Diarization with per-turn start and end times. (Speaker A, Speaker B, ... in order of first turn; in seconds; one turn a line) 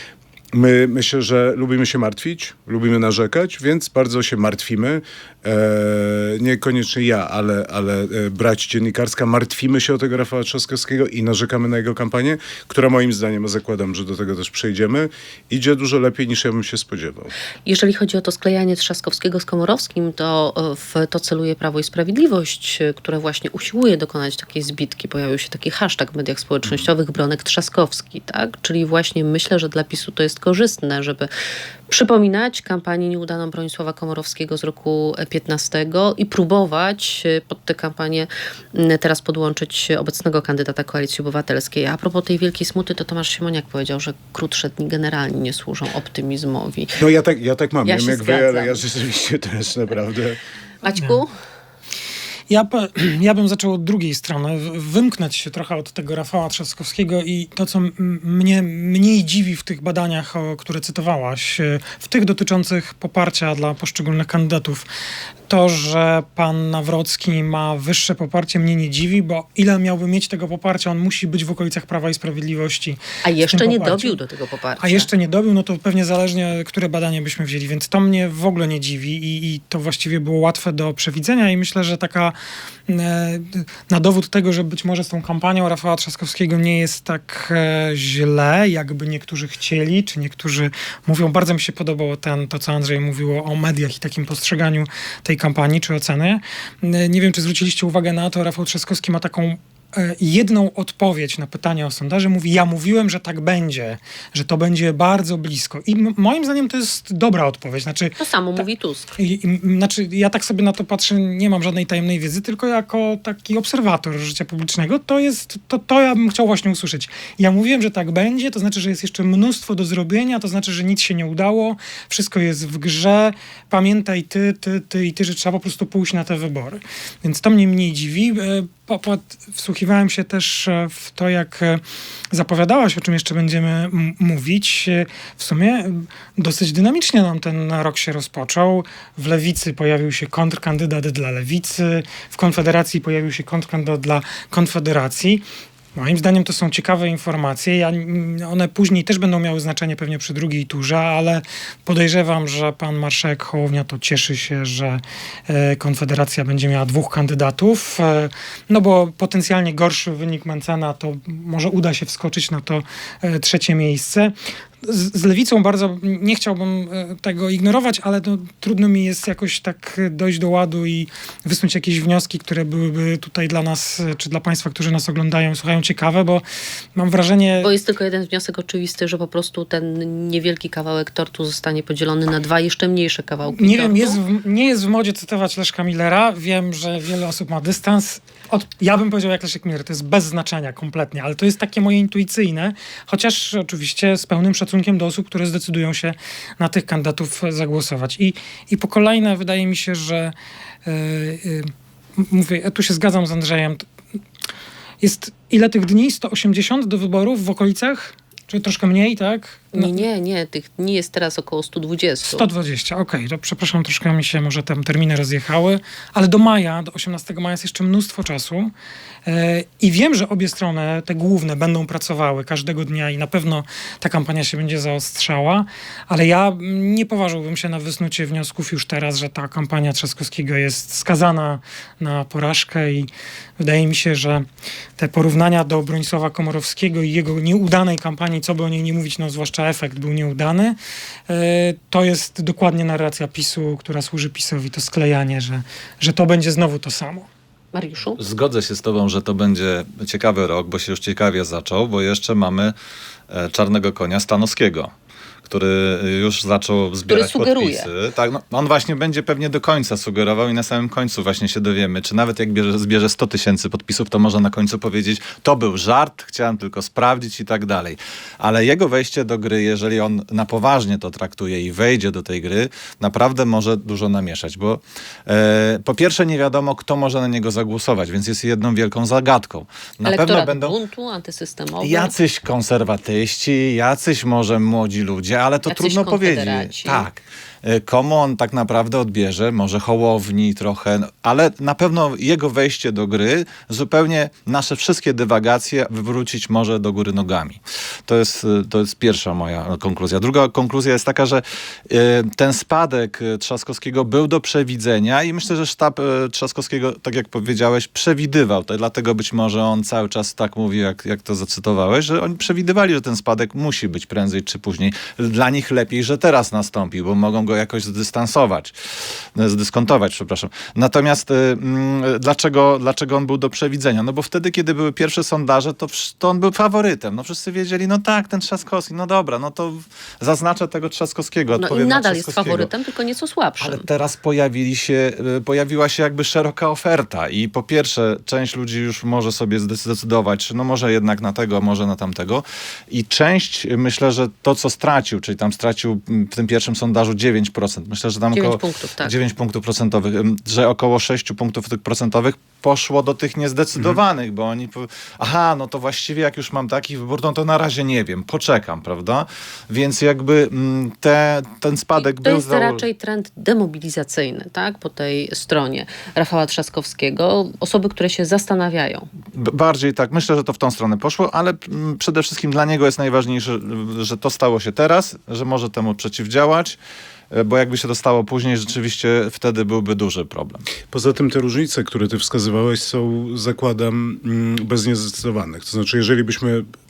Speaker A: 0.5-17.3
Speaker B: 17.6-31.3
Speaker B: 31.9-47.0
Speaker A: 47.0-50.4
Speaker B: 47.9-48.8
Speaker B: 50.8-51.3
Speaker C: 52.5-64.8
Speaker C: 65.5-74.2
Speaker B: 73.2-75.1
Speaker C: 74.8-82.3
Speaker C: 82.9-108.6
Speaker B: 108.2-109.1
Speaker C: 109.2-145.4
Speaker C: 145.9-176.4
Speaker C: 176.9-177.7
Speaker B: 177.6-184.2
Speaker C: 183.5-200.3
Speaker C: 200.8-203.9
Speaker C: 205.0-210.0
Speaker B: 209.7-212.4
Speaker C: 212.2-218.7
Speaker C: 219.2-234.4
Speaker C: 235.0-240.8
Speaker C: 241.3-247.3
Speaker B: 247.7-248.2
Speaker D: 248.2-252.7
Speaker D: 253.3-254.9
Speaker D: 255.5-280.7
Speaker B: 257.1-257.9
Speaker B: 280.1-282.1
Speaker D: 281.8-318.7
Speaker B: 285.7-287.1
Speaker D: 319.3-332.7
Speaker B: 331.6-333.8
Speaker D: 333.6-362.8
Speaker B: 348.3-349.1
Speaker B: 361.9-369.1
Speaker D: 369.3-376.8
Speaker D: 377.3-380.6
Speaker A: 380.9-386.6